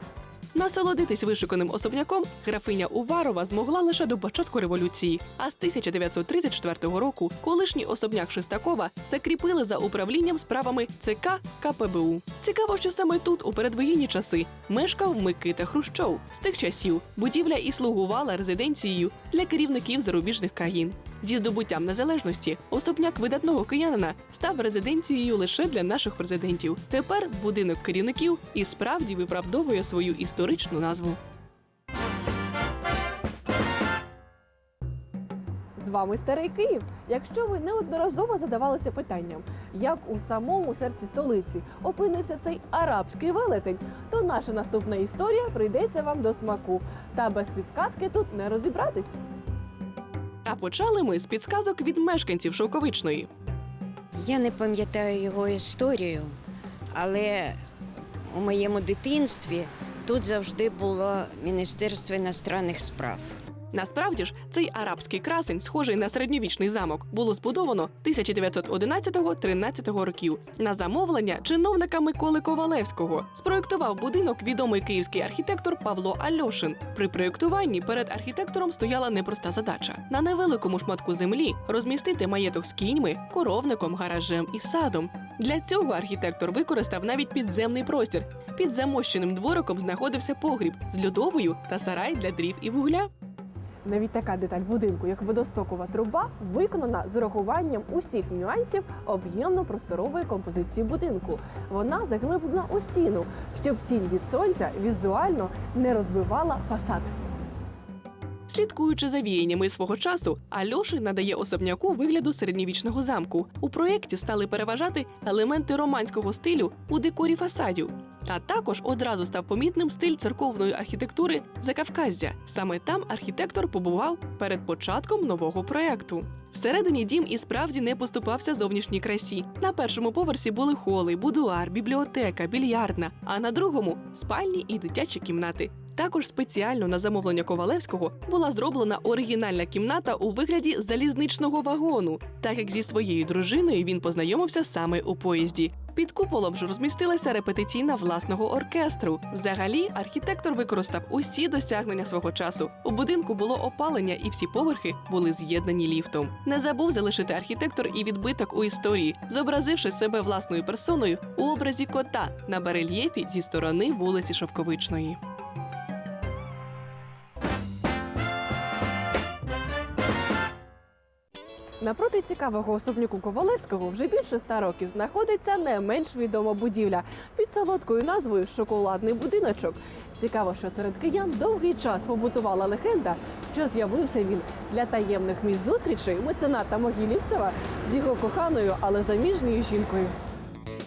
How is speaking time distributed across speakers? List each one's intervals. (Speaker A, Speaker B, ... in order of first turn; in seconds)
Speaker A: 0.5-31.2, 50.4-53.3, 63.7-93.1, 108.5-165.2
Speaker B: 35.8-49.2, 93.8-107.1, 171.8-190.1
Speaker C: 54.2-56.4, 56.9-57.6, 58.2-63.3